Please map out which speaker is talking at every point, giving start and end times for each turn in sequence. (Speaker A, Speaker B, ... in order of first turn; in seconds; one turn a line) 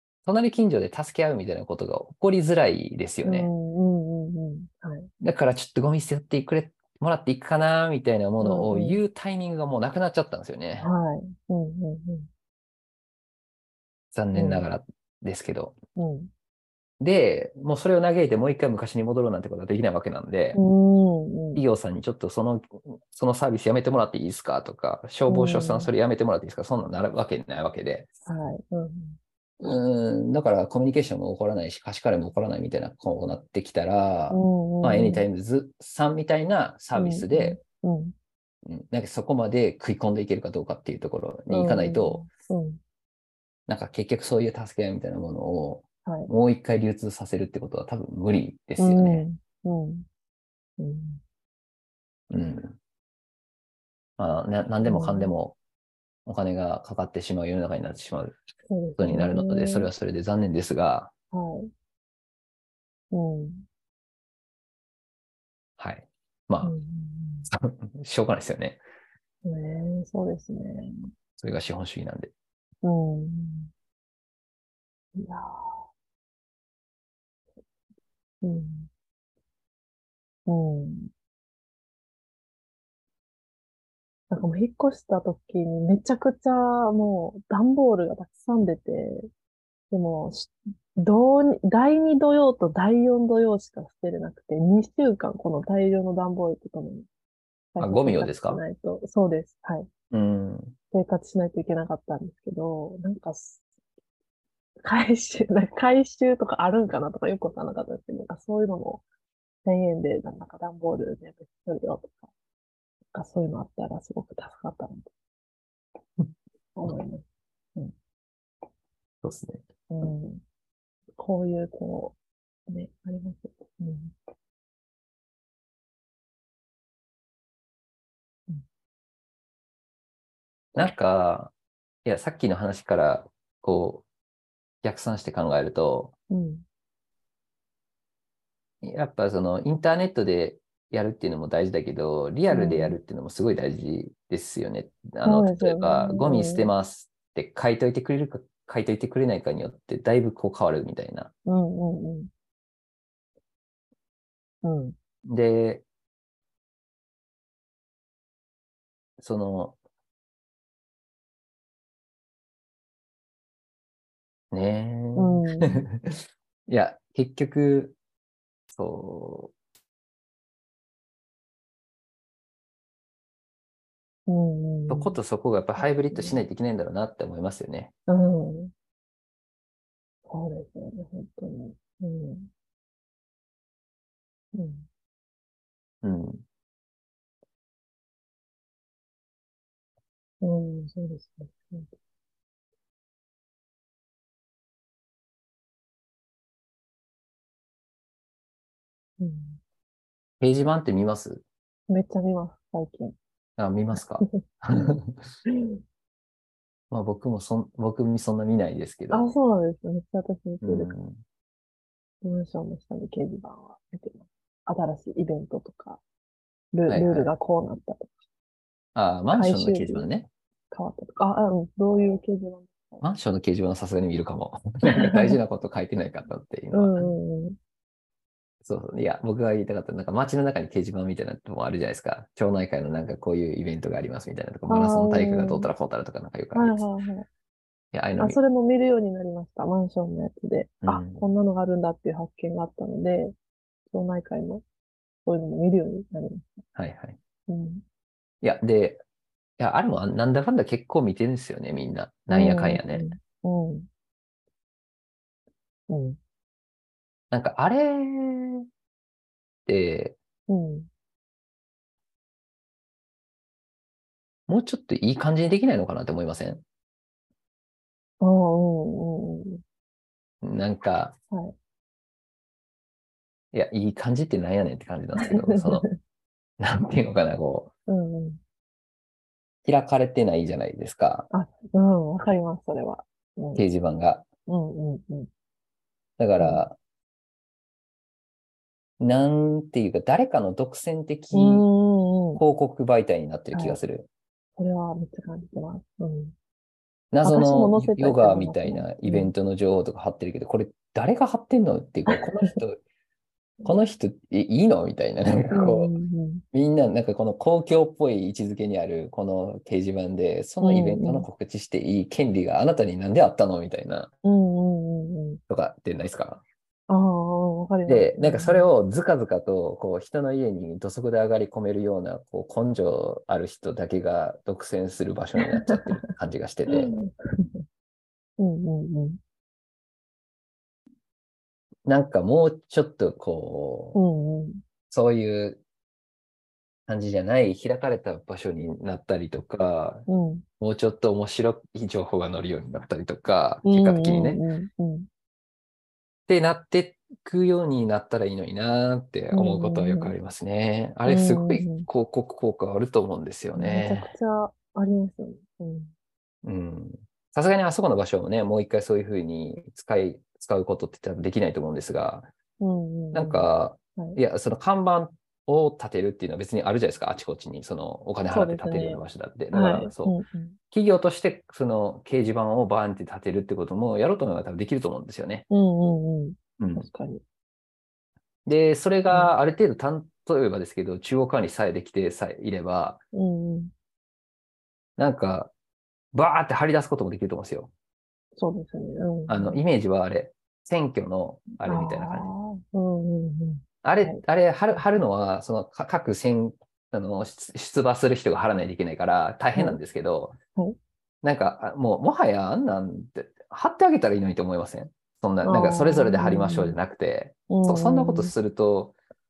Speaker A: 0.2-3.5
Speaker B: 3.2-5.1
Speaker A: 5.2-10.9
Speaker B: 8.4-9.0
Speaker B: 10.8-12.3
Speaker A: 14.1-15.8
Speaker B: 14.3-14.7
Speaker B: 16.0-16.3
Speaker A: 17.0-20.6
Speaker B: 20.5-21.6
Speaker A: 21.6-28.1
Speaker B: 25.3-25.9
Speaker B: 28.3-29.2
Speaker A: 29.6-37.6
Speaker B: 34.3-35.2
Speaker B: 36.9-38.1
Speaker A: 38.6-42.2
Speaker B: 41.5-42.8
Speaker A: 43.7-49.2
Speaker B: 46.0-46.3
Speaker B: 48.8-50.1
Speaker B: 50.8-51.2
Speaker A: 52.3-52.8
Speaker A: 54.2-55.6
Speaker B: 54.8-55.3
Speaker A: 56.3-58.4
Speaker B: 58.7-59.9
Speaker A: 59.0-61.1
Speaker B: 61.3-61.7
Speaker B: 63.1-63.7
Speaker A: 65.8-66.7
Speaker B: 66.6-67.5
Speaker A: 67.5-68.8
Speaker B: 69.4-71.1
Speaker A: 71.4-72.3
Speaker B: 72.8-73.7
Speaker B: 75.2-75.8
Speaker B: 78.4-78.9
Speaker B: 80.5-81.1
Speaker B: 84.3-89.3
Speaker B: 89.9-97.1
Speaker B: 97.8-99.9
Speaker A: 97.8-98.6
Speaker A: 100.1-100.8
Speaker B: 100.9-103.6
Speaker B: 104.8-109.0
Speaker B: 109.7-112.3
Speaker B: 113.1-115.1
Speaker B: 116.8-117.2
Speaker A: 119.2-119.6
Speaker B: 119.9-120.4
Speaker B: 121.2-122.2
Speaker B: 122.7-124.2
Speaker A: 130.8-131.5
Speaker A: 132.1-134.1
Speaker A: 134.8-136.1
Speaker B: 136.3-136.7
Speaker A: 138.8-151.3
Speaker B: 142.5-143.0
Speaker B: 145.2-146.7
Speaker B: 151.5-152.3
Speaker B: 154.6-155.0
Speaker A: 155.2-155.8
Speaker A: 159.2-159.8
Speaker A: 164.5-168.0
Speaker B: 165.2-165.8
Speaker A: 168.7-169.5
Speaker B: 174.3-175.2
Speaker A: 174.9-177.9
Speaker B: 175.8-176.4
Speaker B: 178.1-178.7
Speaker B: 180.3-182.5
Speaker B: 184.5-184.9
Speaker A: 186.0-186.4
Speaker B: 190.4-191.9
Speaker B: 199.2-199.6
Speaker A: 200.4-201.4
Speaker B: 201.9-203.2
Speaker A: 203.6-205.2
Speaker B: 204.2-205.8
Speaker A: 206.9-209.3
Speaker B: 209.1-210.9
Speaker A: 210.6-211.2
Speaker B: 212.2-216.0
Speaker B: 216.7-218.1
Speaker A: 216.9-217.3
Speaker A: 218.9-220.3
Speaker B: 219.3-220.1
Speaker B: 220.7-223.0
Speaker A: 223.0-227.1
Speaker B: 224.9-225.4
Speaker B: 226.7-227.6
Speaker A: 228.6-236.8
Speaker B: 234.7-235.7
Speaker B: 236.5-237.3
Speaker A: 237.9-238.4
Speaker B: 238.2-243.3
Speaker A: 240.8-241.2
Speaker B: 243.9-244.6
Speaker B: 245.3-246.6
Speaker A: 246.8-247.2
Speaker B: 247.5-247.8
Speaker A: 248.4-249.0
Speaker A: 249.6-253.1
Speaker B: 252.3-253.9
Speaker B: 255.9-256.2
Speaker A: 257.3-258.7
Speaker A: 259.7-260.2
Speaker B: 260.5-260.9
Speaker A: 264.5-266.6
Speaker B: 268.2-269.6
Speaker A: 270.4-271.1
Speaker A: 273.5-275.9
Speaker B: 275.2-275.9
Speaker A: 276.6-277.7
Speaker B: 277.9-278.4
Speaker A: 279.6-281.3
Speaker B: 281.3-283.6
Speaker A: 283.6-284.3
Speaker B: 284.5-285.3
Speaker A: 286.2-286.8
Speaker B: 286.4-286.7
Speaker A: 289.0-291.7
Speaker B: 291.3-292.4
Speaker A: 292.4-294.1
Speaker B: 293.5-293.8
Speaker B: 294.6-296.4
Speaker A: 297.1-302.8
Speaker B: 297.2-299.3
Speaker B: 302.1-302.6
Speaker A: 303.6-305.9
Speaker B: 305.5-306.4
Speaker A: 306.5-314.1
Speaker B: 310.6-311.3
Speaker B: 314.2-315.4
Speaker A: 315.5-316.4
Speaker B: 316.9-318.7
Speaker A: 317.9-326.9
Speaker B: 325.4-326.0
Speaker B: 326.7-327.6
Speaker B: 328.4-329.2
Speaker A: 331.9-334.0
Speaker B: 333.9-334.6
Speaker A: 334.9-335.6
Speaker A: 336.9-340.1
Speaker B: 340.1-340.4
Speaker A: 340.6-344.4
Speaker B: 343.6-345.1
Speaker A: 346.3-354.1
Speaker B: 349.3-350.1
Speaker B: 351.1-351.9
Speaker B: 353.6-355.9
Speaker A: 356.4-362.3
Speaker B: 362.6-364.2
Speaker A: 363.1-370.1
Speaker B: 368.3-370.6
Speaker A: 370.7-375.5
Speaker B: 375.5-377.2
Speaker A: 376.6-376.9
Speaker A: 378.5-383.0
Speaker B: 379.1-379.4
Speaker B: 383.1-383.7
Speaker A: 385.0-385.5
Speaker A: 386.1-387.7
Speaker B: 388.4-389.6
Speaker A: 389.3-392.3
Speaker B: 391.6-394.2
Speaker A: 393.8-400.4
Speaker B: 399.5-399.8
Speaker A: 401.2-408.9
Speaker B: 405.4-406.8
Speaker B: 407.5-408.3